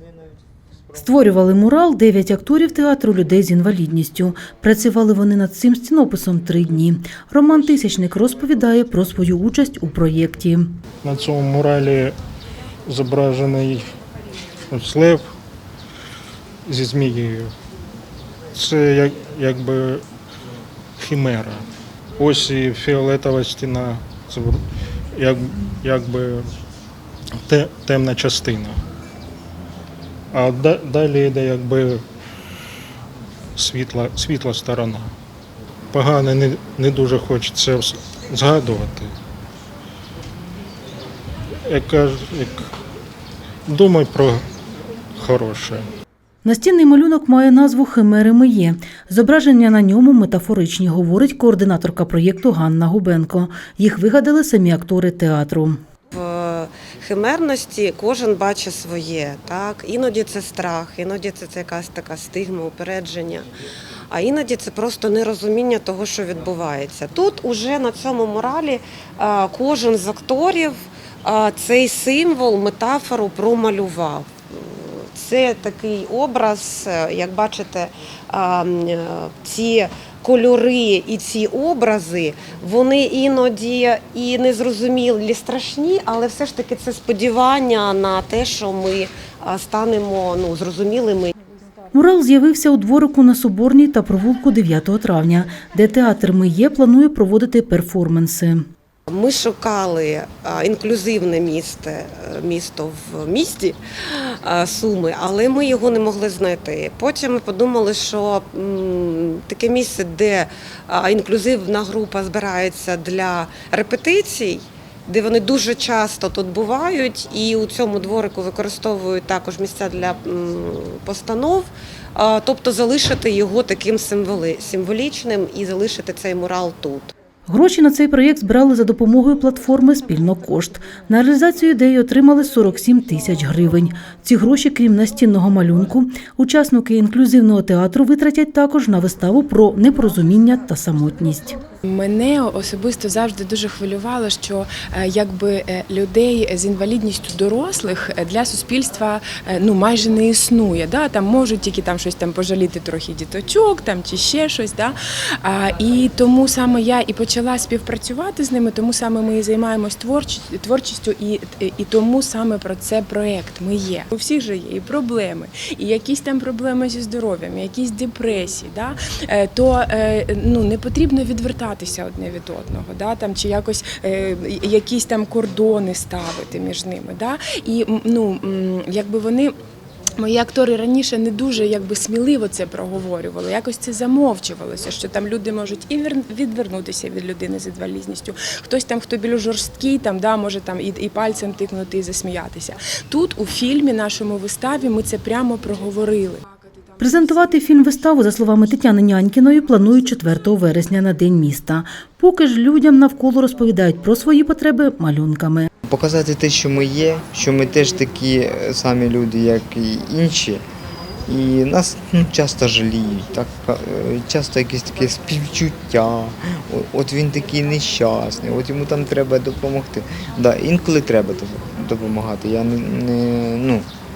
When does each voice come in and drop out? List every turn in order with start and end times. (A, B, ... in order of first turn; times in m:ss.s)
0:00.9-0:10.8 A
0:11.0-0:12.2 B
0:12.9-0:13.8 B
0:14.7-0:15.2 B
0:16.6-0:17.5 B
0:18.5-0:20.0 B
0:21.0-0:21.6 B
0:22.2-0:24.6 B
0:25.2-0:26.5 B
0:27.5-0:28.8 B
0:30.3-0:32.0 B
0:33.6-0:35.1 B
0:35.9-0:39.1 B
0:41.7-0:42.6 B
0:43.7-0:44.4 B
0:45.2-0:45.8 B
0:46.4-0:55.8 A
0:56.1-1:03.5 C
1:04.1-1:31.3 C
1:31.9-1:38.6 A
1:39.1-2:07.1 C
2:07.5-2:21.6 A
2:21.9-2:59.5 D
3:00.2-3:17.9 D
3:17.0-3:25.7 A
3:25.9-3:30.6 E
3:31.3-3:43.8 E